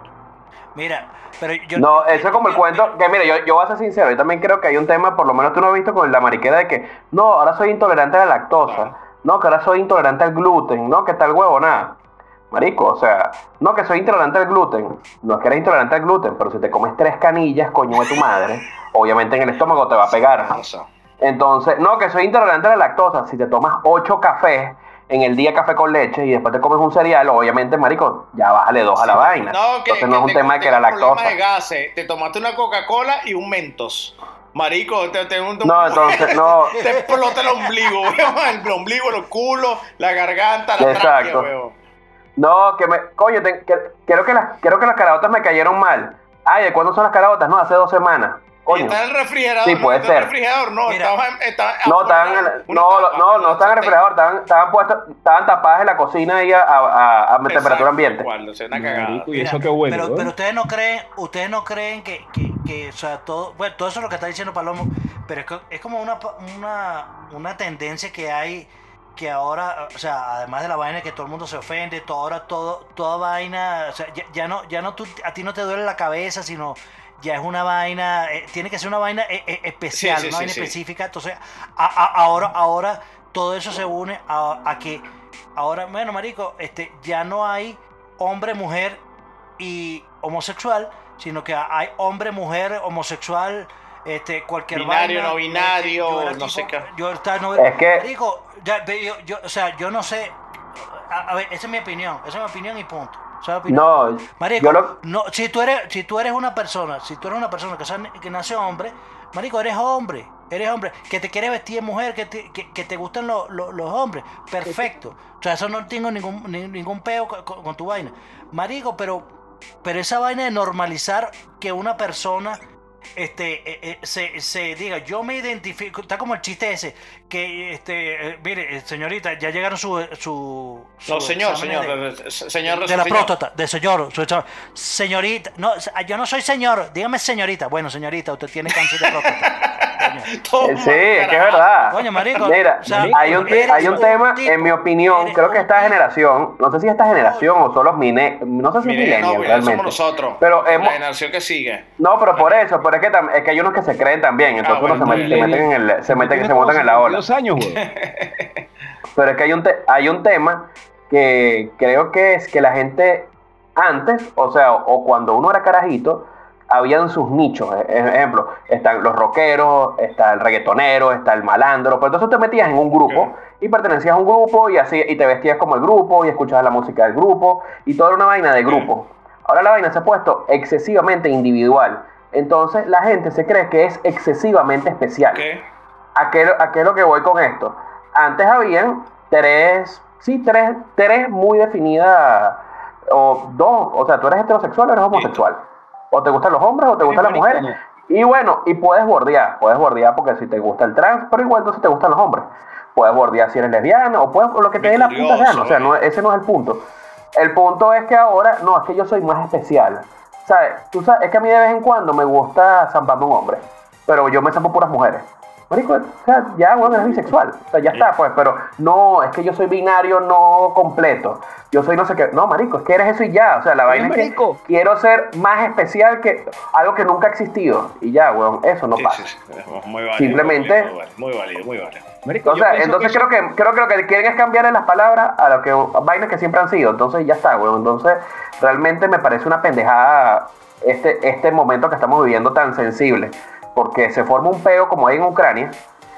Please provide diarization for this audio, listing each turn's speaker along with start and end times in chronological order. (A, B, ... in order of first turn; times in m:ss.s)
0:00.8-0:02.9 A
0:01.8-0:12.0 B
0:08.7-0:08.9 C
0:12.5-0:20.6 B
0:20.2-0:20.9 C
0:21.2-0:31.4 B
0:29.0-0:41.8 C
0:35.6-0:36.8 B
0:36.7-0:37.9 A
0:40.8-0:41.5 B
0:42.4-0:49.0 B
0:48.7-0:54.0 C
0:49.6-0:50.3 B
0:50.9-0:51.2 A
0:51.8-0:58.3 B
0:57.5-0:59.4 C
0:58.7-1:00.3 D
0:59.3-1:29.0 A
1:19.9-1:20.8 C
1:29.6-1:40.4 A
1:34.7-1:36.8 C
1:37.6-1:38.1 B
1:40.9-1:59.3 A
1:43.7-1:45.0 B
1:59.8-2:02.6 A
2:03.2-2:12.0 A
2:11.1-2:13.3 C
2:12.6-2:20.3 A
2:19.1-2:22.4 C
2:20.6-2:31.0 B
2:21.9-2:26.0 A
2:22.9-2:24.1 D
2:27.2-2:27.6 A
2:28.8-2:32.6 C
2:32.0-2:37.3 B
2:34.6-2:35.5 C
2:34.9-2:37.8 D
2:37.7-2:38.5 C
2:39.1-3:05.5 B
2:53.0-2:53.3 C
2:58.6-2:58.9 C
3:05.3-3:05.6 C
3:06.2-3:49.2 B
3:15.1-3:15.4 C
3:17.0-3:17.8 D
3:24.8-3:26.0 C
3:43.9-3:44.6 D
3:49.0-3:52.1 C
3:50.2-3:50.9 B
3:52.2-3:53.3 D
3:52.4-4:05.8 B